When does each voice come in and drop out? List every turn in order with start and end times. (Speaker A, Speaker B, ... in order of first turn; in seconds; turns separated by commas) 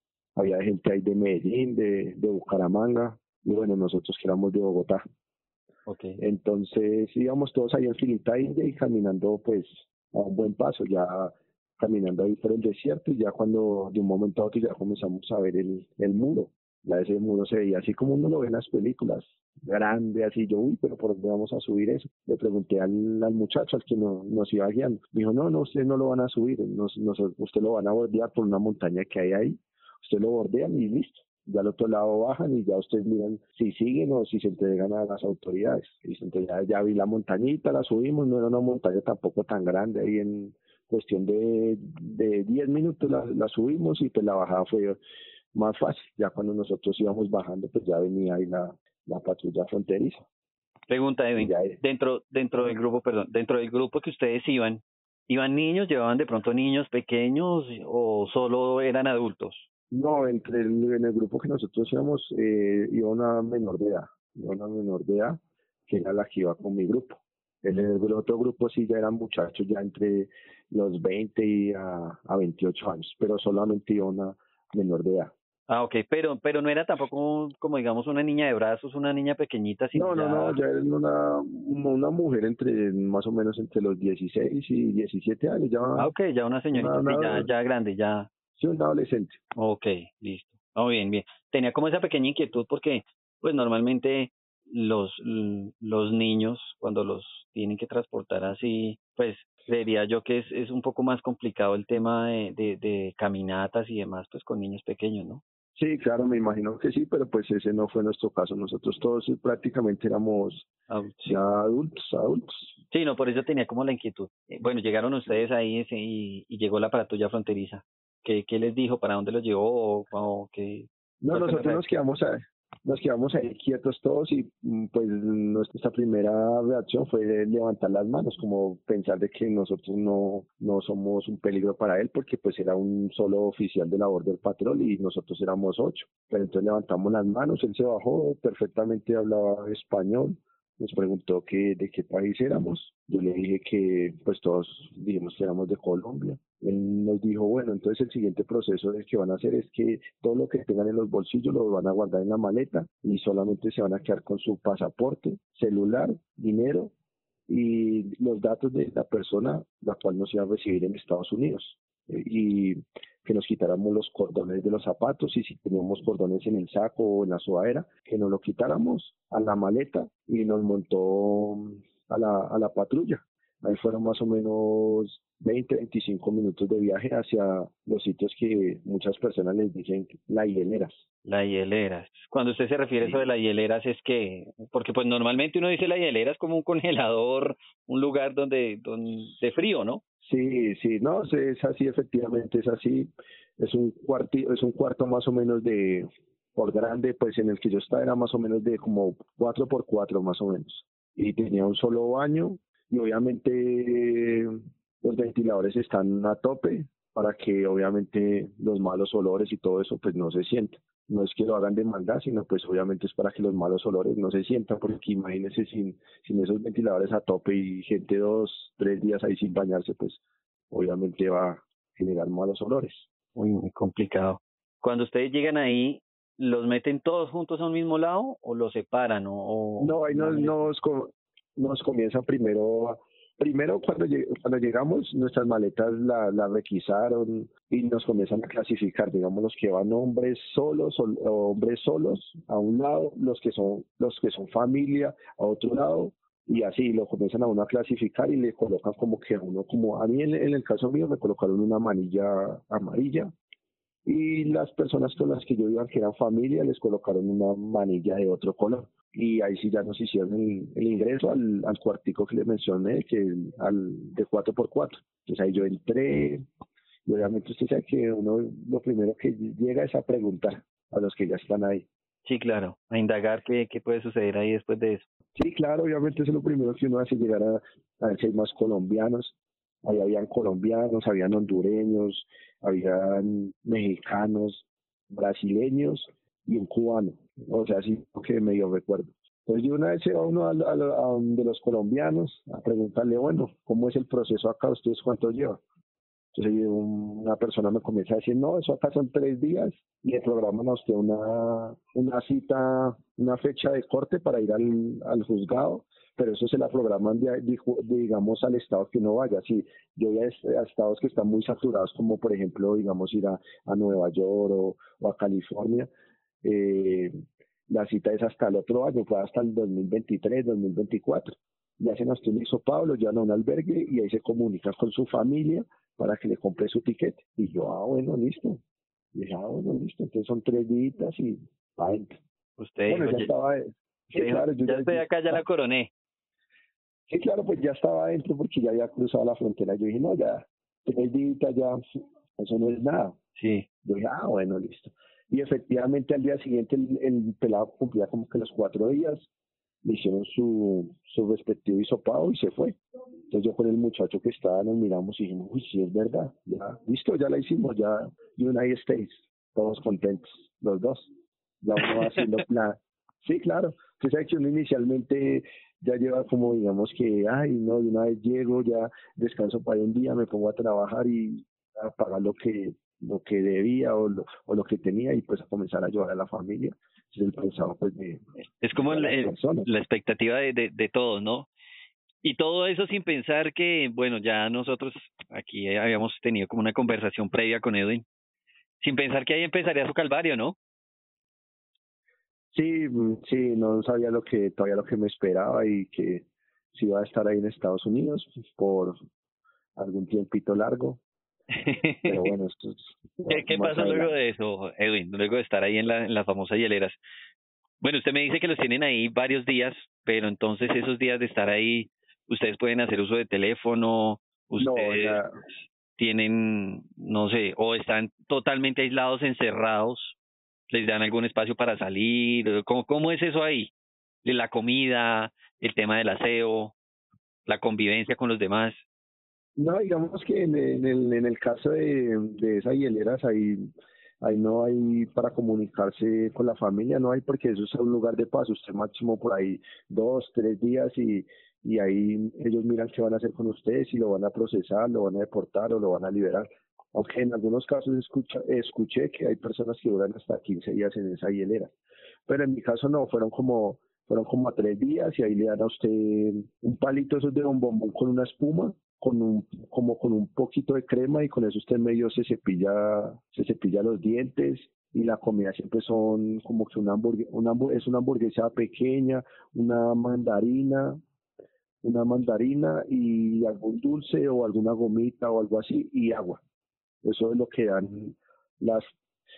Speaker A: 0.4-5.0, Speaker B: 5.9-6.2, Speaker A: 6.2-45.0, Speaker A: 45.5-50.2, Speaker B: 50.9-59.7, Speaker A: 51.4-51.8, Speaker A: 59.9-75.3, Speaker B: 75.7-80.6, Speaker A: 79.9-86.1, Speaker B: 86.0-88.3, Speaker A: 86.7-87.5, Speaker A: 88.6-89.4, Speaker B: 89.6-105.4, Speaker A: 105.8-110.7, Speaker B: 110.9-111.4, Speaker A: 111.3-112.8, Speaker B: 112.9-121.8, Speaker A: 121.2-156.9, Speaker A: 157.5-181.0, Speaker B: 181.2-190.0, Speaker A: 190.2-223.1, Speaker B: 223.4-230.7, Speaker A: 229.8-253.3, Speaker A: 254.1-266.4, Speaker A: 267.1-271.9, Speaker B: 272.2-275.1, Speaker A: 275.4-295.6, Speaker A: 296.3-315.9, Speaker A: 316.4-317.1, Speaker A: 317.7-328.6, Speaker A: 329.1-332.2, Speaker B: 332.6-333.3, Speaker A: 332.9-335.4, Speaker B: 334.2-335.9, Speaker A: 337.1-341.8, Speaker A: 342.4-343.2, Speaker B: 343.4-343.7, Speaker A: 343.8-349.3, Speaker A: 349.8-352.8, Speaker A: 353.3-361.1, Speaker A: 361.6-378.2, Speaker B: 378.6-381.5, Speaker A: 378.8-379.7, Speaker B: 382.2-388.1, Speaker B: 388.8-390.6, Speaker A: 392.5-399.0, Speaker A: 399.8-401.0, Speaker B: 401.5-402.3, Speaker A: 402.1-404.1, Speaker B: 403.3-407.0, Speaker B: 407.8-415.2, Speaker A: 414.6-415.3, Speaker B: 416.0-420.2, Speaker B: 420.7-423.7, Speaker B: 424.2-426.8, Speaker B: 427.5-428.8, Speaker A: 429.6-433.7, Speaker A: 434.2-451.7, Speaker A: 452.3-471.0, Speaker A: 471.8-476.4, Speaker A: 477.0-478.9